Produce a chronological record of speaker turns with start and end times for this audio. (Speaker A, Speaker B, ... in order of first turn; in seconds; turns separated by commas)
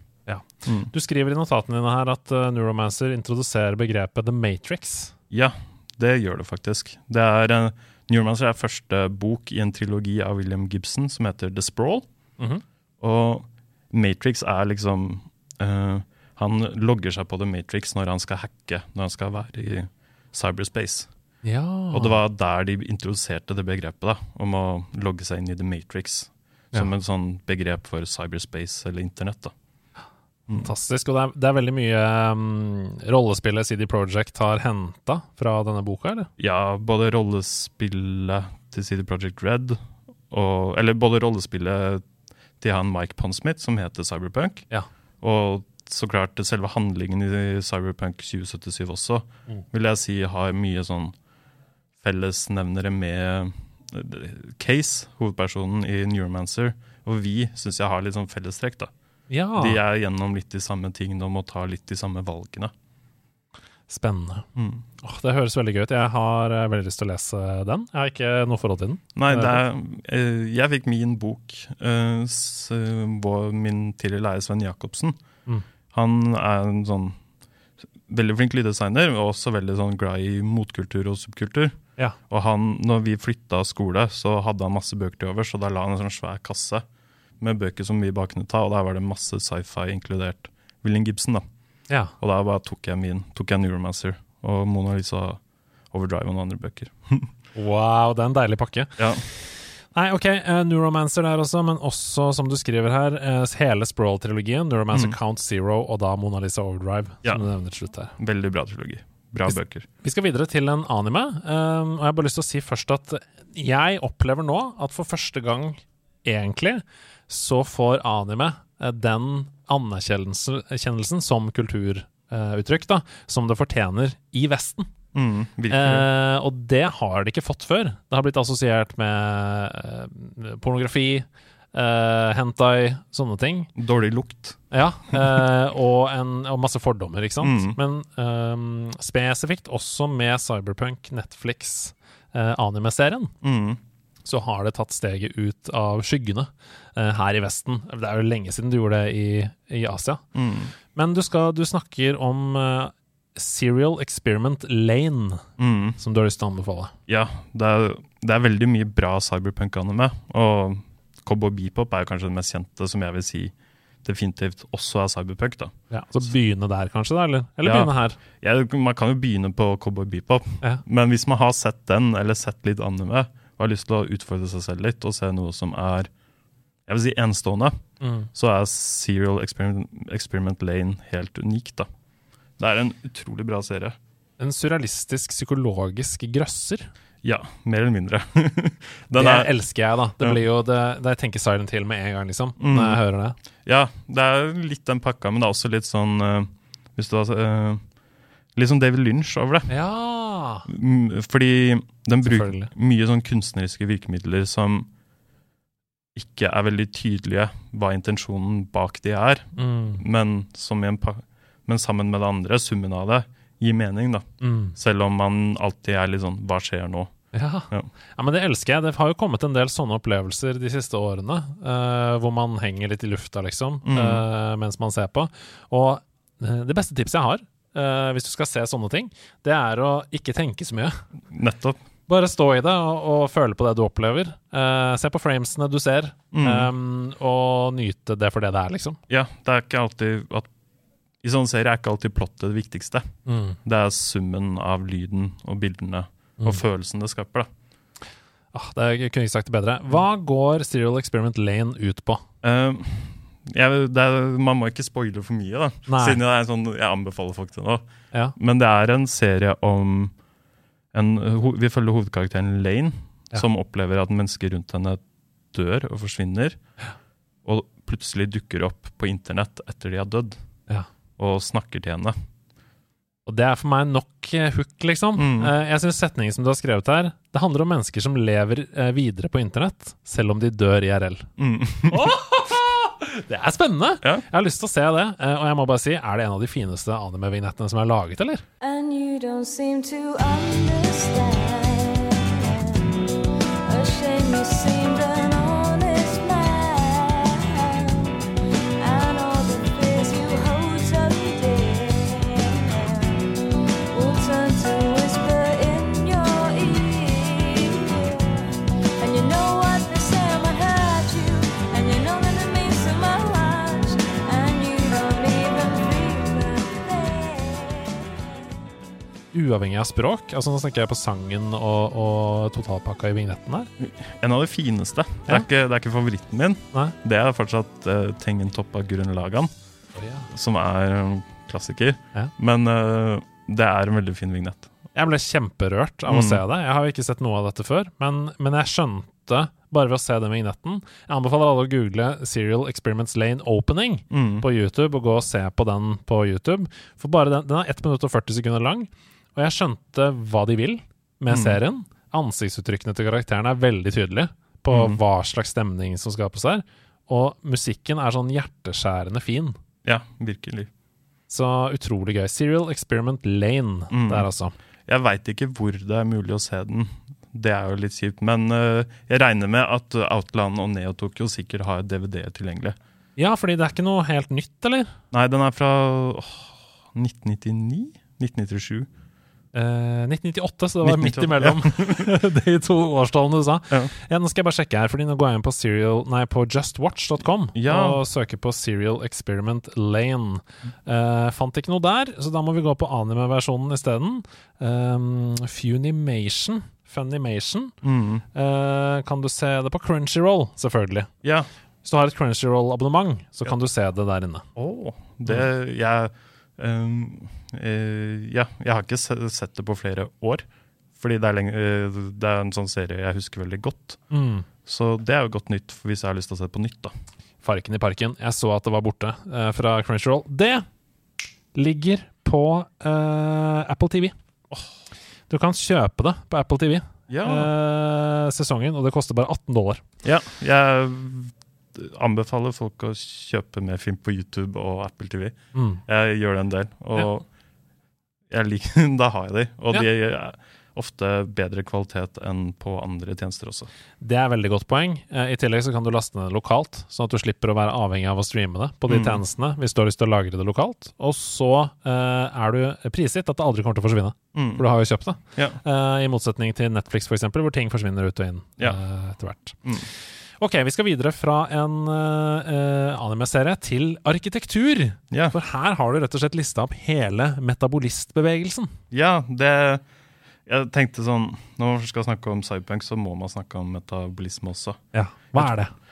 Speaker A: 0.3-5.1, Speaker B: 0.6-0.9, Speaker B: 5.3-12.1, Speaker B: 13.0-21.1, Speaker A: 21.4-22.2, Speaker B: 21.9-29.5, Speaker A: 30.5-36.3, Speaker B: 36.4-39.8, Speaker B: 40.3-42.0, Speaker B: 42.6-44.7, Speaker B: 45.2-51.1, Speaker B: 52.0-58.9, Speaker A: 59.3-59.8, Speaker B: 59.6-62.7, Speaker A: 63.9-64.5, Speaker B: 64.5-64.8, Speaker A: 65.0-69.6, Speaker B: 69.2-75.2, Speaker B: 75.9-77.2, Speaker B: 78.1-86.8, Speaker B: 87.4-91.4, Speaker B: 92.2-95.4, Speaker B: 95.9-97.3, Speaker A: 97.5-108.1, Speaker B: 99.0-99.2, Speaker B: 108.2-109.9, Speaker A: 110.0-124.9, Speaker B: 125.1-126.1, Speaker A: 125.7-133.7, Speaker B: 133.8-134.6, Speaker A: 134.7-143.3, Speaker B: 137.4-137.8, Speaker B: 143.4-143.8, Speaker A: 144.2-150.2, Speaker B: 150.3-150.7, Speaker A: 150.9-155.4, Speaker B: 155.6-156.0, Speaker A: 156.0-156.9, Speaker B: 157.1-163.5, Speaker B: 164.0-165.7, Speaker A: 165.9-168.2, Speaker B: 167.6-176.1, Speaker B: 176.9-177.8, Speaker A: 178.0-178.3, Speaker B: 178.3-181.9, Speaker B: 182.6-184.0, Speaker A: 184.4-186.9, Speaker B: 187.2-189.5, Speaker A: 189.1-193.4, Speaker B: 192.6-193.0, Speaker B: 193.6-197.8, Speaker B: 198.5-199.7, Speaker A: 199.7-200.7, Speaker B: 200.7-204.9, Speaker A: 202.2-202.7, Speaker B: 206.1-217.1, Speaker A: 209.6-210.0, Speaker A: 214.4-214.8, Speaker A: 217.3-231.0, Speaker B: 223.8-224.2, Speaker B: 231.3-231.8, Speaker A: 232.1-239.0, Speaker B: 236.3-236.7, Speaker B: 239.1-240.5, Speaker B: 241.2-247.5, Speaker A: 243.2-243.6, Speaker A: 248.5-252.2, Speaker B: 252.4-257.8, Speaker A: 255.9-256.2, Speaker B: 258.4-260.1, Speaker B: 260.9-265.0, Speaker B: 265.5-266.6, Speaker B: 267.4-270.4, Speaker B: 271.2-272.1, Speaker A: 273.2-281.3, Speaker B: 275.1-275.5, Speaker B: 281.4-282.1, Speaker A: 281.9-288.4, Speaker C: 288.6-293.1, Speaker C: 293.6-318.3, Speaker A: 319.3-323.7, Speaker B: 323.8-329.5, Speaker A: 329.9-330.3, Speaker B: 330.3-334.7, Speaker A: 334.9-359.6, Speaker B: 336.1-336.4, Speaker B: 344.1-344.5, Speaker B: 351.3-351.6, Speaker B: 354.7-355.0, Speaker B: 359.8-360.7, Speaker A: 361.3-364.5, Speaker B: 363.9-364.3, Speaker B: 364.9-372.8, Speaker A: 373.2-374.9, Speaker B: 375.1-378.9, Speaker A: 379.5-397.8, Speaker B: 380.8-382.1, Speaker B: 387.5-388.0, Speaker B: 397.8-398.2, Speaker A: 398.3-401.1, Speaker B: 401.2-401.5, Speaker A: 401.8-404.5, Speaker B: 404.6-410.4, Speaker B: 411.0-414.0, Speaker A: 414.1-414.5, Speaker B: 414.6-416.9, Speaker A: 417.4-420.7, Speaker A: 421.5-424.1, Speaker A: 425.3-429.8, Speaker B: 427.1-427.5, Speaker B: 430.0-437.3, Speaker A: 435.5-435.8, Speaker B: 438.3-443.7, Speaker A: 444.0-459.6, Speaker B: 448.9-449.2, Speaker B: 454.3-454.6, Speaker A: 460.4-468.7, Speaker B: 468.9-469.8, Speaker B: 470.5-474.8, Speaker A: 474.9-475.7